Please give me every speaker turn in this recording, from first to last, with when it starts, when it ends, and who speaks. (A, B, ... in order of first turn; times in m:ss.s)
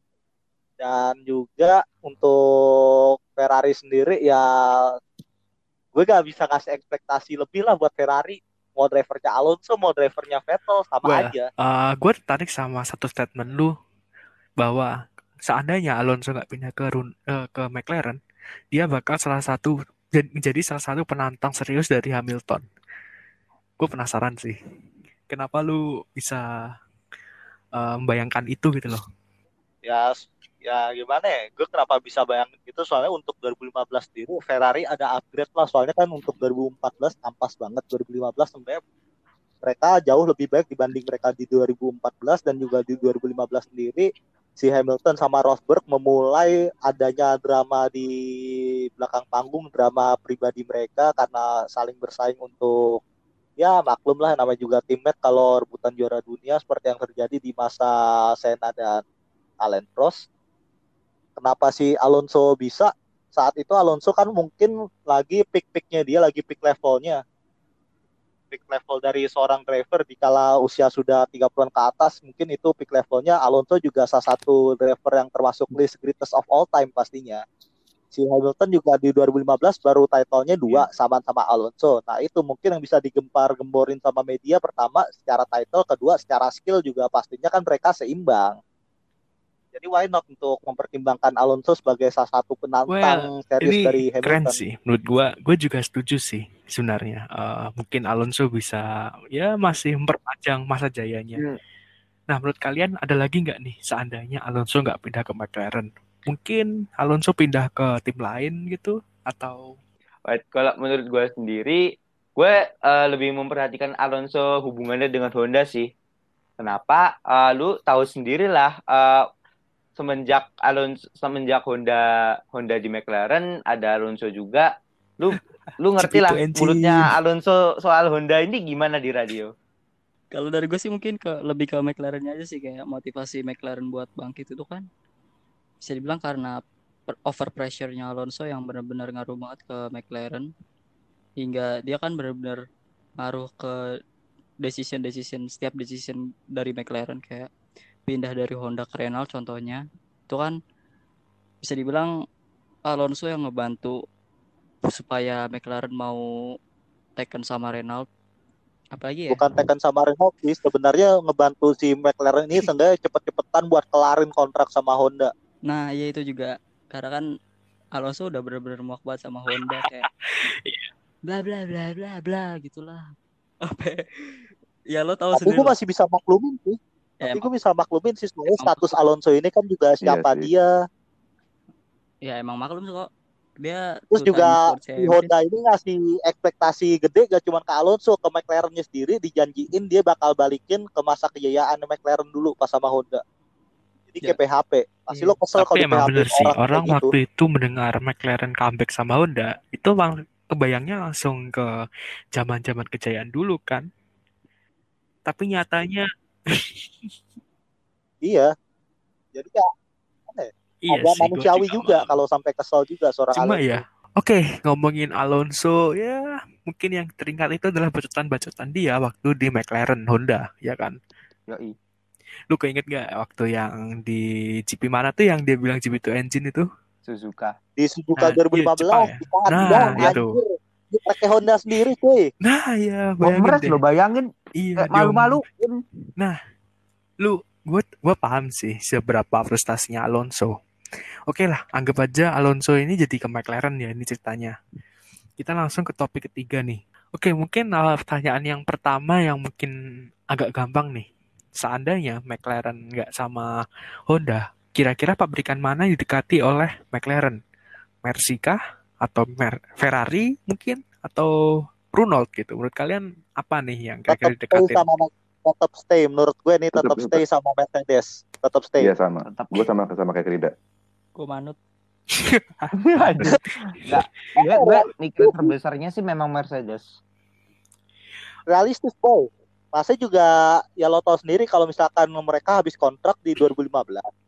0:00.8-0:05.0 A
0:05.9-0:11.5 A
0:11.0-0:13.7 B
0:14.6-0:14.9 B
0:15.4-0:18.2 B
0:18.7-0:22.6 B
0:23.8-0:24.6 B
0:25.3-0:26.4 B
0:27.8-0:29.0 B
0:29.8-0:38.8 A
0:39.6-0:48.1 A
0:49.0-0:53.0 A
0:53.6-0:59.0 A
0:59.6-1:00.2 A
1:01.4-1:07.2 A
1:08.5-1:17.4 A
1:18.1-1:28.6 A
1:29.7-1:34.6 A
1:32.9-1:38.8 B
1:39.3-1:41.4 B
1:42.3-1:49.7 B
1:50.3-1:51.8 C
1:52.4-1:55.9 C
1:56.6-1:59.2 C
2:00.0-2:04.7 C
2:05.2-2:09.5 C
2:06.0-2:07.1 B
2:10.3-2:14.8 D
2:15.8-2:16.6 D
2:17.1-2:20.5 D
2:21.4-2:22.6 D
2:23.2-2:23.8 D
2:24.6-2:27.5 D
2:28.1-2:30.5 D
2:31.6-2:32.1 D
2:32.9-2:34.0 D
2:34.8-2:36.2 D
2:37.2-2:38.0 D
2:38.9-2:39.4 D
2:39.3-2:45.3 A
2:45.7-2:47.2 D
2:48.0-2:50.0 D
2:49.5-2:50.9 B
2:51.3-2:53.1 D
2:53.6-2:55.7 D
2:55.4-3:00.7 A
2:57.2-2:57.5 D
2:58.5-2:59.0 D
3:00.0-3:00.5 E
3:02.2-3:03.1 D
3:03.6-3:05.3 D
3:04.1-3:13.2 A
3:14.1-3:17.1 A
3:15.6-3:21.7 B
3:22.3-3:23.8 B
3:25.2-3:27.1 B
3:28.2-3:28.5 A
3:29.3-3:29.7 A
3:30.3-3:33.8 A
3:30.8-3:32.2 B
3:33.3-3:41.0 B
3:41.5-3:41.7 C
3:42.5-3:46.6 B
3:47.1-3:47.5 C
3:47.8-3:52.3 A
3:48.2-3:50.4 B
3:52.4-3:53.8 B
3:53.2-3:55.8 C
3:54.6-3:55.4 B
3:57.2-4:00.5 B
4:01.3-4:04.5 B
4:05.4-4:09.7 B
4:10.3-4:11.0 B
4:11.6-4:13.5 B
4:14.1-4:17.4 B
4:18.0-4:21.3 B
4:21.9-4:24.8 B
4:24.1-4:28.9 A
4:26.7-4:27.2 E
4:28.8-4:30.5 E
4:29.3-4:29.6 C
4:31.2-4:31.6 D
4:32.2-4:34.0 B
4:32.8-4:37.0 C
4:34.4-4:35.5 A
4:38.5-4:44.1 A